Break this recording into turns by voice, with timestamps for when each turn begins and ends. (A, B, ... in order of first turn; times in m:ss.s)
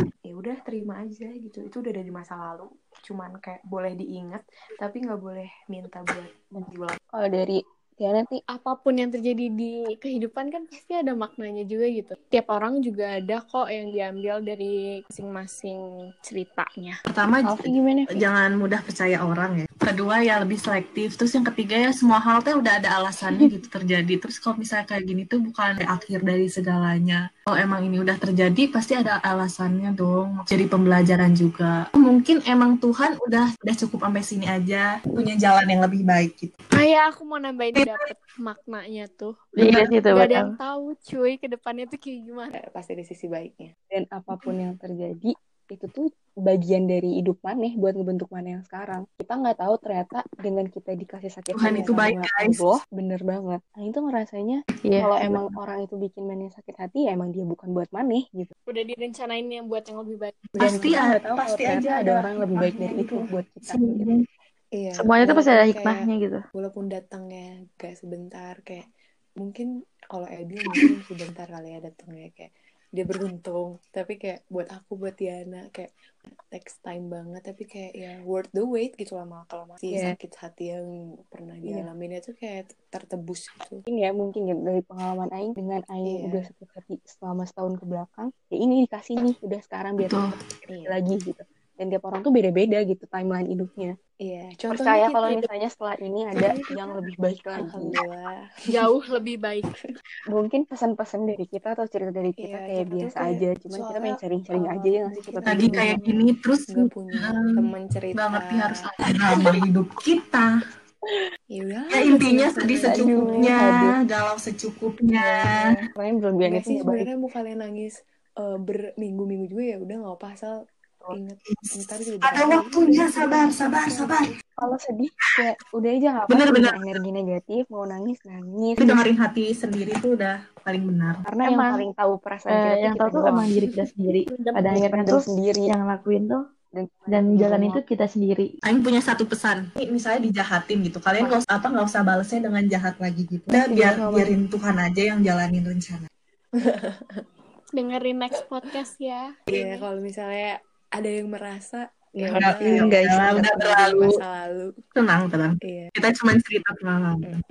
0:00.3-0:07.0 A
0:07.1-0:08.4 B
0:08.5-0:17.0 C
0:17.1-0:36.5 D
0:17.4-0:18.2 B
0:36.7-0:39.6 C
0:37.8-0:38.1 D
0:39.6-0:40.5 E
0:39.6-0:39.9 D
0:40.1-0:42.5 C
0:42.5-0:43.7 A
0:43.9-0:58.5 B
0:51.5-0:52.8 D
0:54.8-0:55.5 E
0:58.7-1:00.5 C
1:00.5-1:03.2 D
1:00.6-1:04.1 B
1:00.6-1:01.0 A
1:02.6-1:03.0 A
1:03.7-1:04.2 D
1:04.8-1:06.0 A
1:05.0-1:06.4 E
1:06.6-1:08.9 A
1:09.4-1:15.9 A
1:16.5-1:23.8 A
1:19.9-1:20.2 B
1:23.9-1:34.0 B
1:26.0-1:26.5 A
1:30.0-1:30.4 D
1:30.7-1:31.0 A
1:34.2-1:35.5 A
1:34.7-1:38.0 B
1:36.3-1:38.4 A
1:38.7-1:39.7 C
1:40.3-1:46.0 B
1:42.4-1:48.7 A
1:45.4-1:50.5 D
1:51.5-1:53.5 A
1:51.9-1:55.9 D
1:52.8-1:54.0 B
1:55.2-1:57.1 B
1:56.4-2:00.6 A
2:01.1-2:04.3 A
2:01.5-2:04.3 D
2:04.6-2:09.0 B
2:06.3-2:07.0 D
2:08.8-2:11.2 D
2:11.3-2:13.6 B
2:11.4-2:11.8 E
2:12.5-2:16.4 E
2:14.5-2:15.7 B
2:16.8-2:17.8 B
2:17.1-2:18.5 E
2:18.6-2:26.1 D
2:23.5-2:24.4 B
2:26.6-2:27.2 A
2:27.8-2:29.9 C
2:29.5-2:34.7 A
2:32.2-2:33.8 B
2:32.3-2:34.2 D
2:35.0-2:37.4 D
2:35.6-2:35.9 A